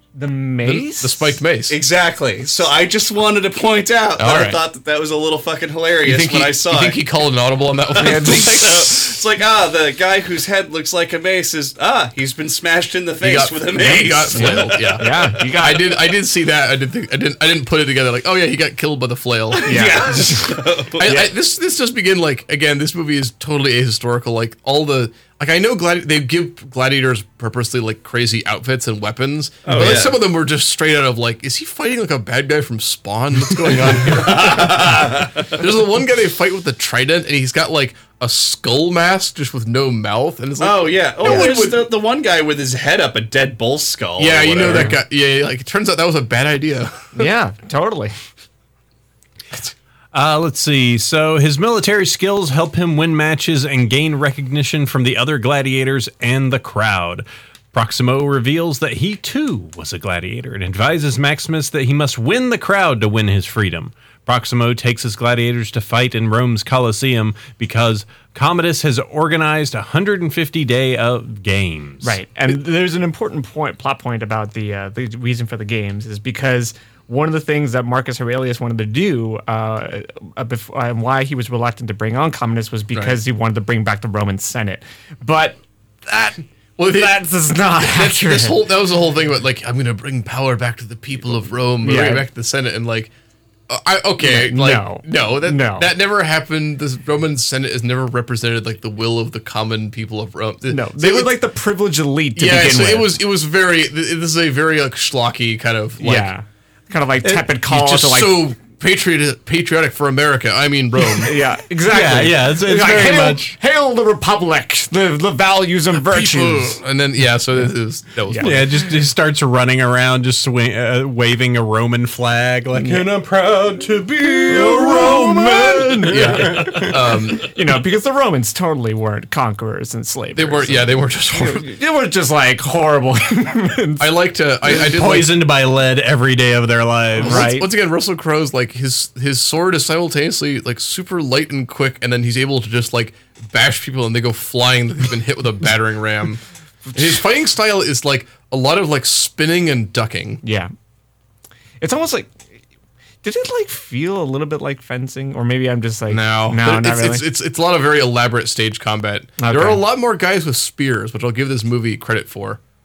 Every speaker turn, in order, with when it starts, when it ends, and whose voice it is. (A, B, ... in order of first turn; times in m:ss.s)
0:00.1-0:01.4 A
0:00.6-0:01.8 B
0:01.7-0:07.0 C
0:04.2-0:04.6 B
0:06.0-0:09.2 B
0:07.9-0:08.9 A
0:08.0-0:15.1 C
0:13.2-0:20.4 B
0:13.8-0:16.0 A
0:19.5-0:21.2 C
0:19.6-0:21.3 A
0:20.9-0:41.8 B
0:29.6-0:30.0 A
0:29.6-0:30.2 C
0:33.9-0:35.6 C
0:40.6-0:45.0 C
0:41.2-0:41.6 A
0:44.2-0:47.3 B
0:44.6-0:45.0 A
0:47.1-0:48.2 A
0:50.1-1:12.1 D
1:12.0-1:28.6 A
1:26.8-1:27.1 B
1:27.8-1:33.1 B
1:31.8-1:32.2 A
1:33.7-1:41.3 B
1:34.2-1:35.9 A
1:40.7-1:43.2 A
1:42.3-1:46.3 B
1:46.0-1:48.4 A
1:47.2-1:51.4 B
1:51.2-1:56.8 A
1:51.8-1:53.6 D
1:56.0-1:58.8 B
1:58.3-1:58.6 A
1:58.4-2:07.0 D
2:04.5-2:14.1 A
2:04.8-2:05.2 B
2:06.0-2:07.5 B
2:10.4-2:11.7 B
2:14.0-2:15.3 B
2:14.7-2:17.5 D
2:17.2-2:26.4 B
2:17.2-2:17.7 A
2:26.9-2:30.4 B
2:30.4-2:30.7 A
2:31.8-2:32.4 A
2:33.2-2:37.3 A
2:36.1-2:42.6 B
2:39.4-2:39.8 A